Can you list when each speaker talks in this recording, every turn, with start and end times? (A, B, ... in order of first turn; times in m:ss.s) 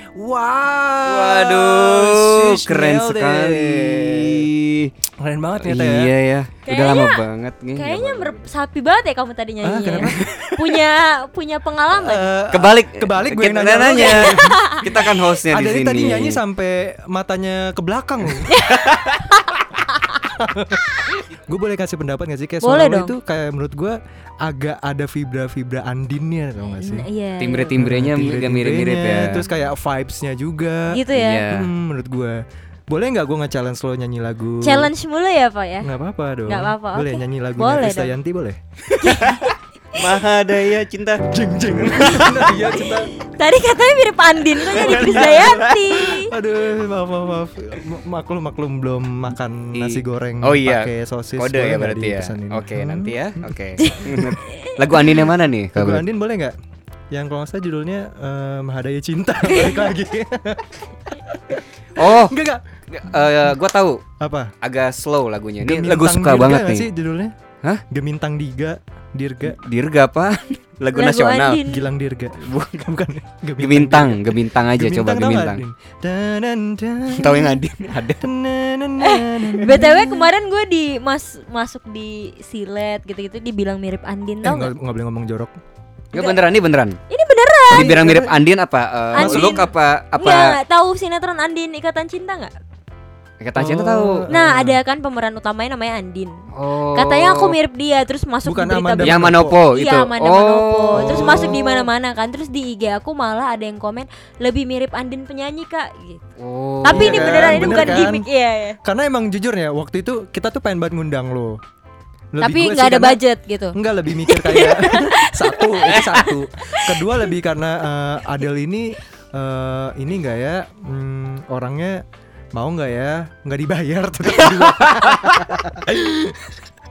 0:00.1-0:04.5 A
0:01.0-0:04.9 B
0:05.2-0:06.1 A
0:05.6-0:08.4 B
0:06.6-0:07.2 C
0:07.7-0:12.3 C
0:09.6-0:10.3 A
0:11.9-0:14.9 A
0:12.5-0:16.4 B
0:13.8-0:15.1 C
0:15.5-0:18.6 A
0:18.5-0:20.2 C
0:18.7-0:19.2 B
0:20.3-0:27.1 A
0:22.6-0:23.2 C
0:26.8-0:27.8 C
0:27.4-0:29.5 B
0:27.7-0:34.9 A
0:30.9-0:31.5 C
0:31.1-0:31.7 B
0:34.6-0:35.9 C
0:35.8-0:38.6 A
0:36.5-0:38.1 C
0:38.9-0:41.3 B
0:39.0-0:40.0 C
0:41.3-0:43.1 A
0:41.8-0:42.7 B
0:42.9-0:46.3 C
0:44.6-0:54.4 A
0:44.7-0:45.8 B
0:49.7-0:56.0 B
0:53.8-0:55.1 C
0:55.7-0:56.6 A
0:57.1-1:02.6 A
1:02.0-1:02.4 B
1:02.9-1:04.0 B
1:04.2-1:04.5 A
1:04.6-1:06.9 B
1:05.6-1:07.3 A
1:07.9-1:09.6 A
1:09.5-1:11.6 B
1:10.9-1:11.9 C
1:11.6-1:17.5 A
1:12.4-1:12.9 B
1:13.6-1:15.6 B
1:17.1-1:18.3 B
1:18.2-1:20.3 A
1:19.0-1:24.7 C
1:24.4-1:25.5 A
1:26.1-1:27.0 B
1:26.1-1:26.4 C
1:27.1-1:28.0 C
1:27.7-1:28.4 A
1:27.7-1:30.6 B
1:29.1-1:32.5 C
1:29.1-1:29.6 A
1:33.4-1:34.3 B
1:33.5-1:34.8 A
1:34.3-1:46.2 C
1:36.5-1:37.6 B
1:38.4-1:39.6 A
1:39.0-1:41.6 B
1:40.9-1:41.8 A
1:46.4-1:48.1 B
1:46.8-1:48.8 C
1:46.8-1:48.2 A
1:48.8-1:51.6 A
1:52.3-1:53.2 A
1:52.4-1:57.2 C
1:53.7-2:02.0 A
2:02.6-2:06.5 A
2:04.7-2:05.3 B